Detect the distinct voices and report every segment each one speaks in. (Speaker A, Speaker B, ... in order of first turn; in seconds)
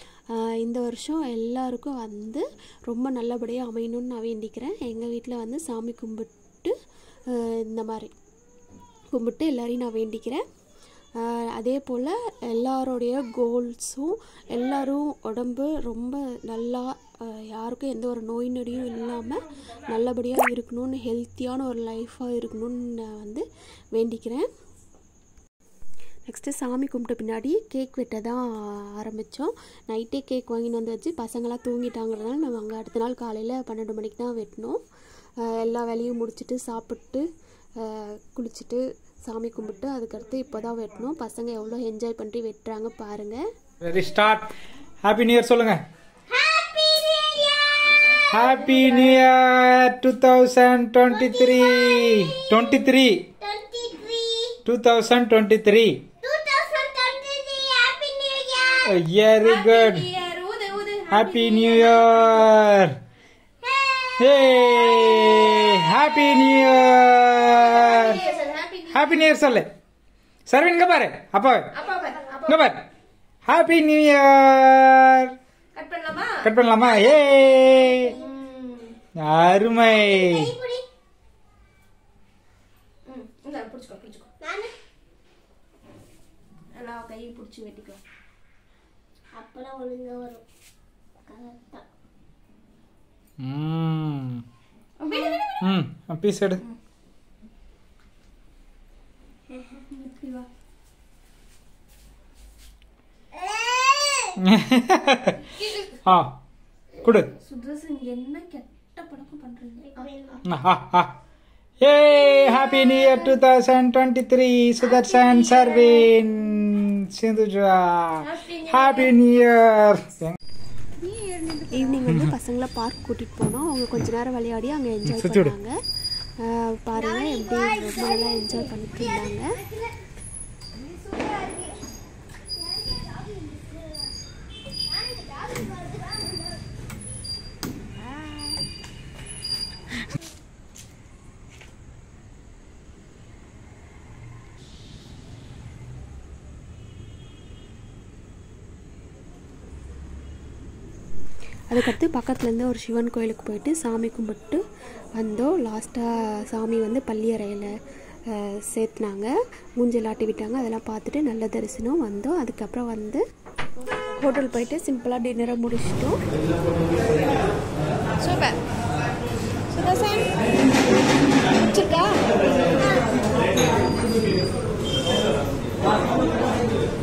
Speaker A: 0.3-6.7, 7.4-8.1, 9.1-10.4, 11.2-23.4, 23.9-24.5, 26.3-34.8, 35.5-37.2, 37.8-43.4, 121.7-125.8, 126.4-129.6, 151.7-154.6, 155.2-157.7, 158.3-163.2, 164.2-166.2
Speaker B: 43.8-44.5, 45.0-45.8, 48.3-53.2, 54.7-56.0, 58.9-60.1, 61.1-63.0, 64.2-68.2, 68.9-69.7, 70.5-71.7, 72.5-72.8, 73.5-75.3, 76.4-78.1, 79.2-80.5, 93.4-94.4, 95.6-96.6, 104.4-105.4, 106.0-106.4, 107.0-107.3, 110.5-111.1, 111.8-120.4, 122.1-122.3, 125.1-125.5
Speaker C: 46.3-47.9, 51.1-52.8, 53.4-54.6, 56.2-59.0, 63.6-66.9, 67.7-68.4, 77.2-78.3, 79.8-80.8, 84.4-84.7, 89.3-90.4, 91.2-91.8, 95.1-95.4, 99.5-99.8, 103.3-104.4, 109.8-110.4, 127.0-129.8, 131.1-131.7, 132.6-134.1, 134.9-136.6
Speaker D: 48.3-49.2, 59.4-62.5, 67.5-69.3, 71.7-72.7, 75.7-76.5, 78.1-79.0, 83.1-84.3, 86.8-88.0, 95.0-95.4, 99.9-100.5, 105.4-106.0, 107.4-110.4, 112.9-113.2, 114.8-116.1, 118.2-119.2, 121.0-122.0, 168.2-168.6, 169.7-170.4, 171.7-172.2